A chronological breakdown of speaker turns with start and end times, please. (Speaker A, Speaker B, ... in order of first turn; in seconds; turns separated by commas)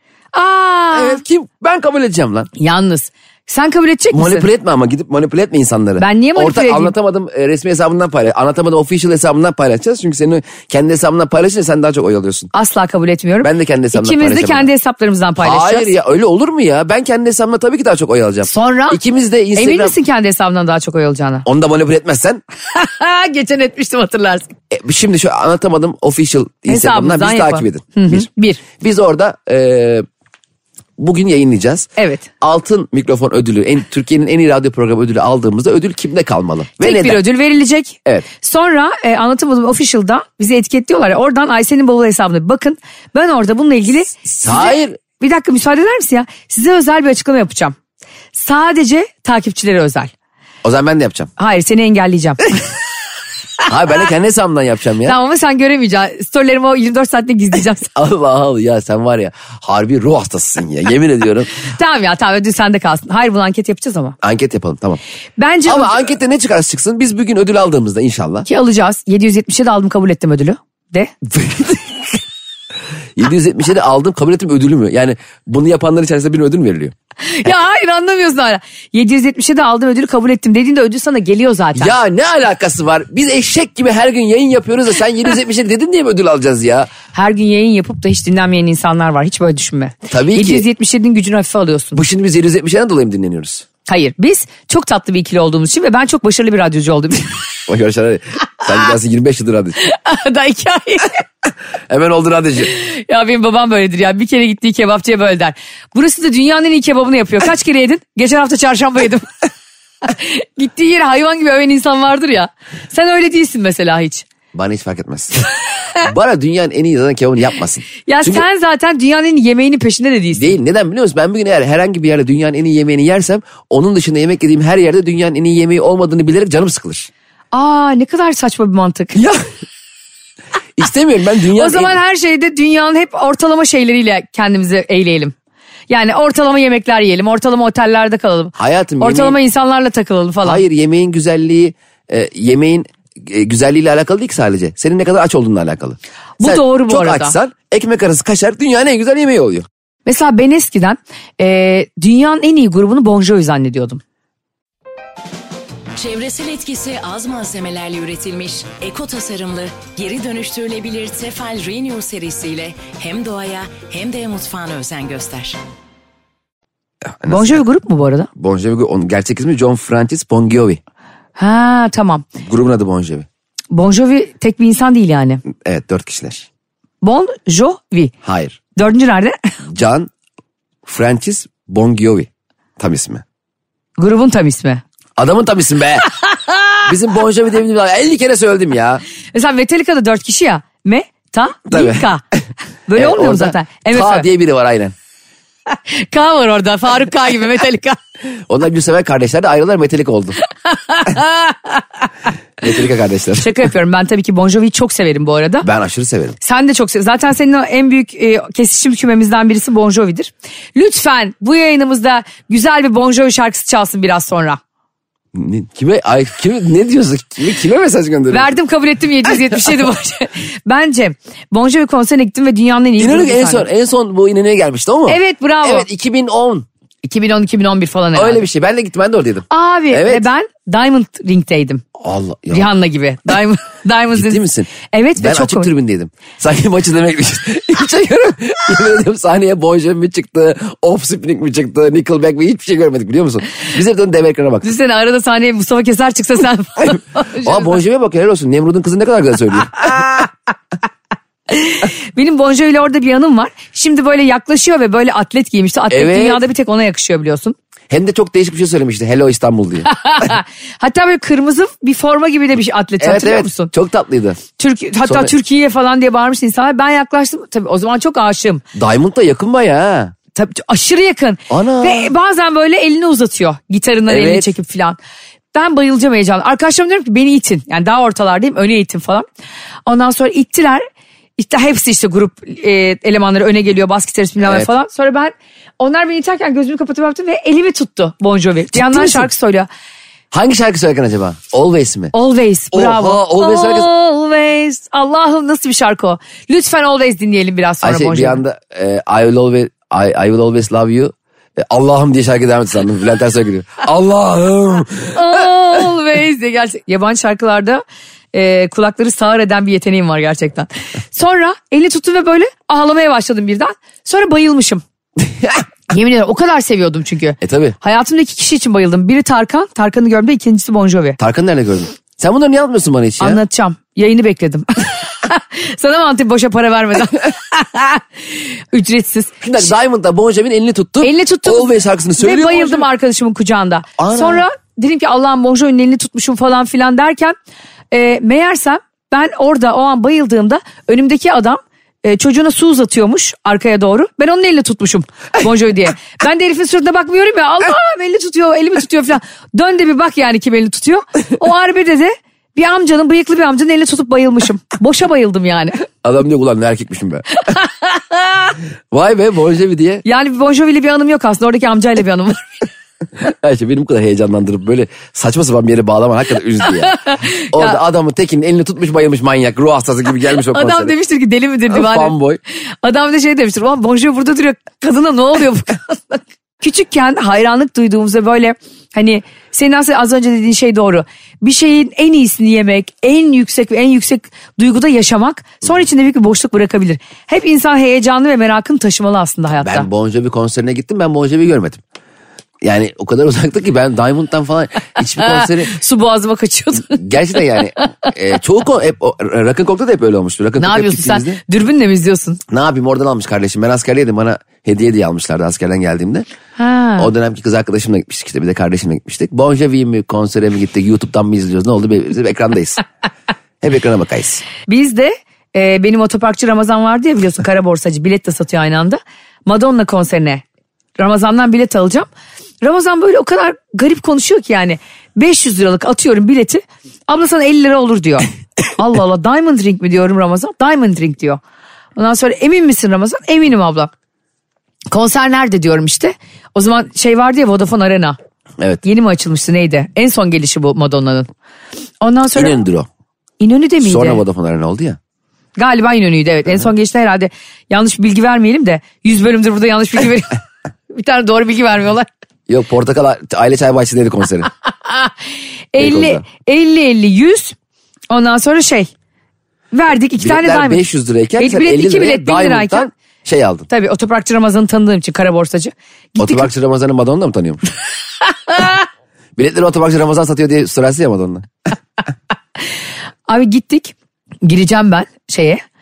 Speaker A: 0.3-1.2, Speaker B: 0.9-2.5, Speaker A: 2.6-4.5, Speaker B: 4.1-12.5, Speaker A: 6.0-6.9, Speaker A: 12.5-15.9, Speaker B: 13.4-14.7, Speaker B: 15.4-19.9, Speaker A: 18.4-19.0, Speaker A: 19.5-21.4, Speaker B: 21.4-22.4, Speaker A: 22.7-24.5, Speaker B: 24.7-30.0, Speaker A: 26.7-28.6, Speaker B: 31.0-31.9, Speaker A: 32.0-32.3, Speaker B: 32.4-37.2, Speaker A: 36.8-47.8, Speaker B: 44.2-45.0, Speaker A: 48.3-50.1, Speaker B: 50.6-51.3, Speaker A: 51.4-52.5, Speaker B: 53.6-55.1, Speaker A: 55.0-57.9, Speaker B: 57.9-61.5, Speaker A: 61.6-64.2, Speaker B: 64.2-65.0, Speaker A: 65.4-66.1, Speaker B: 65.7-68.5, Speaker A: 68.5-71.1, Speaker B: 71.2-72.2, Speaker B: 73.2-76.9, Speaker A: 77.2-82.0, Speaker B: 81.7-86.9, Speaker A: 87.1-92.0, Speaker B: 90.1-90.7, Speaker B: 91.9-93.7, Speaker A: 93.9-97.3, Speaker B: 97.7-99.8, Speaker A: 99.8-101.2, Speaker B: 101.9-102.7, Speaker A: 102.6-109.3, Speaker A: 110.0-114.2, Speaker B: 114.5-115.3, Speaker B: 116.0-118.4, Speaker A: 118.0-120.6, Speaker B: 120.3-127.1, Speaker A: 127.5-129.2, Speaker B: 129.1-129.4, Speaker B: 130.8-132.0, Speaker A: 131.5-135.3, Speaker A: 135.9-140.6, Speaker B: 138.6-139.4, Speaker B: 140.4-149.7, Speaker A: 146.4-147.3, Speaker A: 150.1-154.0, Speaker C: 155.9-165.6, Speaker B: 167.0-167.6, Speaker A: 167.3-168.3, Speaker B: 168.3-170.8, Speaker A: 171.3-172.2, Speaker B: 172.4-173.3, Speaker A: 173.7-175.4, Speaker B: 175.6-176.5, Speaker A: 177.0-178.1, Speaker B: 178.2-178.6, Speaker A: 178.8-179.4, Speaker B: 179.7-180.1, Speaker B: 180.8-183.2, Speaker A: 184.0-184.8, Speaker B: 185.2-186.1, Speaker A: 186.4-186.7, Speaker B: 186.8-189.0, Speaker A: 189.3-192.2, Speaker B: 191.7-192.1, Speaker A: 192.9-194.2, Speaker B: 192.9-194.9, Speaker A: 195.7-198.0, Speaker B: 198.5-200.4, Speaker A: 200.7-201.8, Speaker B: 202.6-203.5, Speaker A: 203.4-205.7, Speaker B: 205.6-206.4, Speaker A: 206.4-214.6, Speaker B: 215.3-218.5, Speaker A: 218.3-223.7, Speaker B: 223.0-226.7, Speaker A: 225.1-225.9, Speaker A: 227.0-228.4, Speaker B: 228.1-230.3, Speaker A: 229.5-231.8, Speaker B: 232.0-232.7, Speaker A: 232.5-235.7, Speaker B: 234.1-244.7, Speaker A: 244.6-247.8, Speaker B: 247.4-250.0, Speaker A: 251.5-257.5, Speaker B: 255.9-256.4, Speaker B: 257.9-260.3, Speaker A: 259.9-263.7, Speaker B: 263.0-264.4, Speaker A: 264.6-268.6, Speaker B: 265.0-265.3, Speaker B: 268.7-270.1, Speaker A: 270.3-275.0, Speaker B: 271.5-272.1, Speaker B: 274.1-274.5, Speaker A: 275.5-279.2, Speaker A: 279.9-280.8, Speaker A: 281.4-289.7, Speaker B: 284.4-284.7, Speaker B: 288.7-289.3, Speaker B: 290.3-292.1, Speaker A: 292.1-298.4, Speaker B: 292.7-293.9, Speaker B: 297.8-305.4, Speaker A: 305.1-314.8, Speaker B: 315.3-315.6, Speaker A: 315.9-321.2, Speaker B: 317.4-317.8, Speaker B: 321.2-323.4, Speaker A: 323.2-329.4, Speaker B: 329.4-332.9, Speaker A: 331.0-337.3, Speaker B: 334.0-334.4, Speaker A: 337.9-355.8, Speaker B: 356.0-357.2, Speaker A: 357.4-358.5, Speaker B: 358.9-360.0, Speaker A: 360.0-362.5, Speaker B: 363.2-367.0, Speaker A: 366.8-367.8, Speaker B: 367.5-370.9, Speaker A: 370.5-372.1, Speaker B: 371.7-372.4, Speaker A: 372.8-389.9, Speaker B: 389.6-391.8, Speaker B: 392.6-395.7, Speaker A: 395.2-398.1, Speaker B: 396.9-401.4, Speaker A: 400.6-402.4, Speaker B: 402.5-406.2, Speaker A: 406.6-407.1, Speaker B: 407.0-412.8, Speaker B: 413.6-414.4, Speaker A: 414.7-420.4, Speaker A: 421.0-422.1, Speaker A: 422.6-431.4, Speaker A: 431.9-433.9, Speaker A: 434.9-438.2, Speaker A: 438.8-441.3, Speaker A: 442.0-442.6, Speaker B: 442.3-442.9, Speaker A: 443.4-444.2, Speaker B: 443.8-445.0, Speaker A: 445.6-450.4, Speaker A: 450.9-452.1, Speaker B: 452.5-454.5, Speaker A: 454.8-455.1, Speaker A: 455.7-457.5, Speaker B: 455.8-456.2, Speaker A: 458.1-458.9, Speaker A: 459.7-460.8, Speaker B: 460.2-463.7, Speaker A: 461.4-462.9, Speaker A: 463.7-466.5, Speaker B: 466.2-467.6, Speaker A: 468.5-468.8, Speaker B: 469.4-471.5, Speaker A: 473.3-475.6